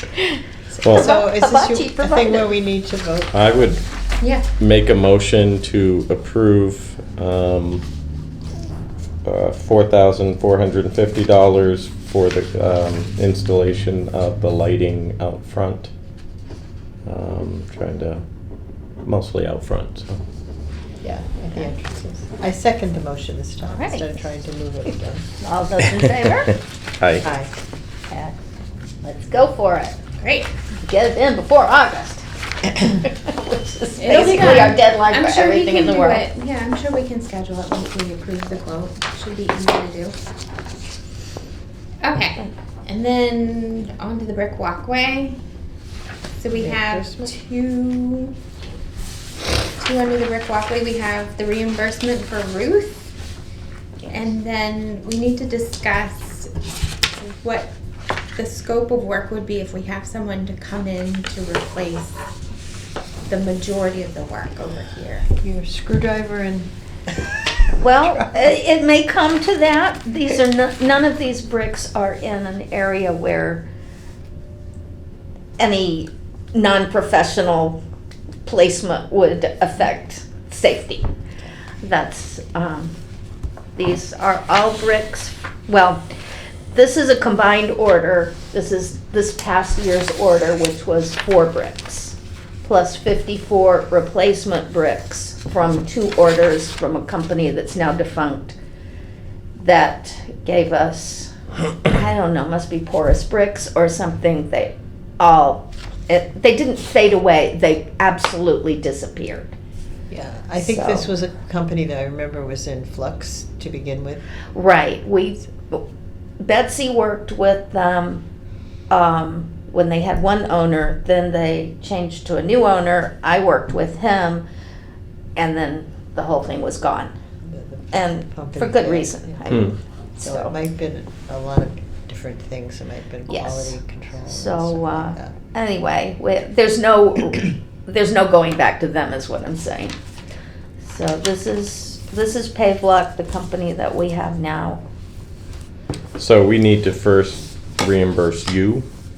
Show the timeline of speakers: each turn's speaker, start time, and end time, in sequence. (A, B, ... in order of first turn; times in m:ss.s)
0:00.2-0:02.5 A
0:00.7-0:03.7 B
0:00.8-0:01.2 C
0:03.3-0:03.8 C
0:04.6-0:07.8 C
0:09.2-0:15.9 C
0:17.0-0:18.2 C
0:19.0-0:20.2 C
0:21.0-0:25.3 B
0:23.7-0:24.2 A
0:25.4-0:26.6 A
0:26.5-0:27.2 C
0:27.2-0:27.5 B
0:28.1-0:28.4 A
0:29.0-0:30.1 A
0:30.2-0:30.5 D
0:30.8-0:36.2 A
0:34.0-0:40.2 D
0:42.0-0:45.4 D
0:46.4-0:48.4 D
0:46.6-0:47.3 B
0:49.8-0:53.1 D
0:54.1-0:56.5 D
0:57.2-0:57.7 D
0:58.4-1:02.2 D
1:03.3-1:05.3 D
1:05.4-1:07.2 B
1:07.8-1:13.7 A
1:08.1-1:08.5 B
1:15.6-1:17.8 A
1:18.4-1:21.1 A
1:21.8-1:22.9 A
1:23.8-1:26.0 A
1:26.7-1:38.6 A
1:39.6-1:41.3 A
1:41.8-1:49.5 A
1:50.1-1:54.2 B
1:50.6-1:51.1 A
1:54.5-1:55.8 A
1:56.4-1:58.2 A
1:58.9-2:04.4 A
2:05.4-2:07.1 A
2:07.4-2:09.6 B
2:07.9-2:10.5 A
2:10.2-2:15.4 B
2:13.3-2:20.0 A
2:20.8-2:24.8 A
2:26.2-2:28.9 C